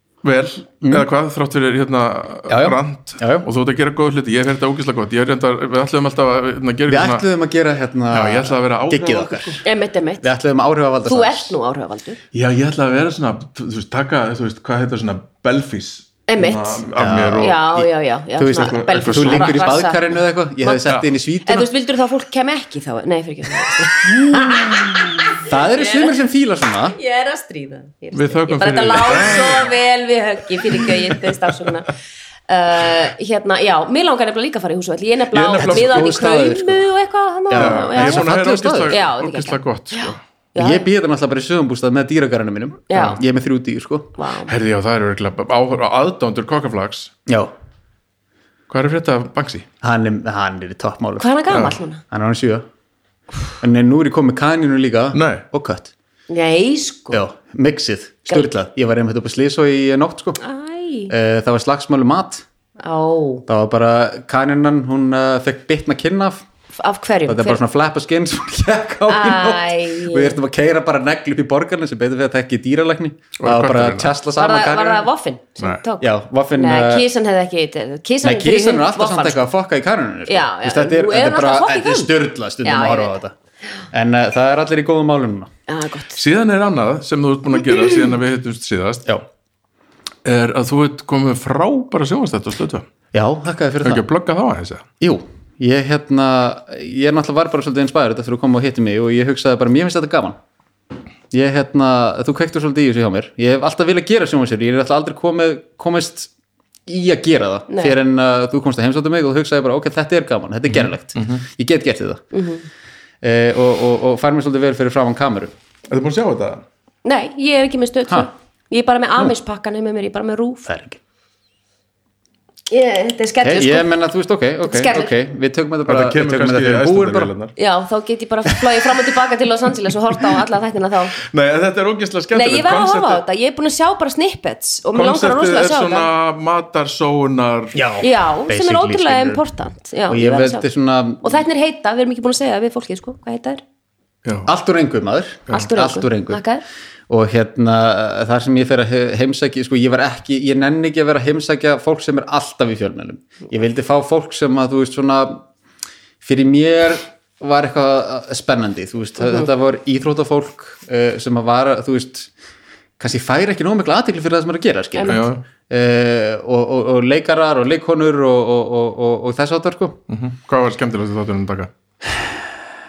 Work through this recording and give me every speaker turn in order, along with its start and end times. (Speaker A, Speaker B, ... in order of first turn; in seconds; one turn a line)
Speaker A: 0.2-7.2
Speaker B: 2.5-3.5
Speaker B: 6.9-9.6
Speaker A: 8.1-9.6
Speaker C: 9.6-10.3
Speaker B: 10.2-11.6
Speaker C: 11.1-12.2
Speaker A: 12.3-17.6
Speaker C: 16.3-20.9
Speaker B: 17.0-21.7
Speaker A: 18.5-19.7
Speaker C: 21.4-26.2
Speaker B: 24.4-27.0
Speaker C: 26.9-31.9
Speaker A: 28.1-29.7
Speaker A: 30.8-31.1
Speaker C: 32.5-38.3
Speaker A: 35.3-36.1
Speaker B: 35.6-36.9
Speaker B: 37.5-39.0
Speaker A: 37.5-40.2
Speaker C: 38.9-40.9
Speaker B: 40.6-44.1
Speaker C: 42.9-43.2
Speaker C: 44.2-44.5
Speaker A: 44.5-47.1
Speaker B: 47.3-47.5
Speaker A: 48.7-49.7
Speaker B: 49.8-52.6
Speaker C: 51.2-52.0
Speaker A: 51.5-51.8
Speaker B: 53.6-55.9
Speaker A: 55.1-55.4
Speaker C: 56.3-57.2
Speaker B: 57.1-60.4
Speaker C: 60.4-61.1
Speaker B: 61.1-62.5
Speaker C: 62.8-63.4
Speaker B: 63.5-66.5
Speaker C: 66.8-67.6
Speaker B: 67.3-75.1
Speaker C: 69.1-70.4
Speaker A: 73.4-74.1
Speaker C: 74.4-79.4
Speaker B: 76.0-77.1
Speaker B: 78.2-83.3
Speaker C: 80.3-83.2
Speaker B: 83.9-85.5
Speaker C: 85.7-86.2
Speaker A: 86.2-89.1
Speaker A: 90.2-92.9
Speaker B: 93.1-94.0
Speaker A: 93.8-94.9
Speaker B: 95.0-100.4
Speaker B: 101.3-106.3
Speaker B: 106.9-112.3
Speaker C: 107.7-108.0
Speaker A: 110.7-111.4
Speaker C: 112.3-112.7
Speaker B: 113.2-115.5
Speaker A: 115.9-116.6
Speaker C: 117.0-120.7
Speaker B: 120.7-121.0
Speaker C: 122.7-123.9
Speaker B: 123.4-127.3
Speaker C: 124.6-125.1
Speaker A: 125.9-127.5
Speaker C: 127.6-131.2
Speaker A: 131.3-133.2
Speaker C: 132.3-136.1
Speaker A: 134.9-137.8
Speaker B: 137.7-139.4
Speaker C: 138.0-140.7
Speaker B: 140.1-141.4
Speaker C: 141.2-143.6
Speaker B: 144.5-146.4
Speaker C: 145.5-146.6
Speaker B: 147.1-155.5
Speaker B: 156.2-162.3
Speaker C: 159.2-159.5
Speaker B: 163.0-170.0
Speaker C: 164.9-165.3
Speaker A: 165.1-165.4
Speaker A: 170.1-171.7
Speaker B: 172.0-172.4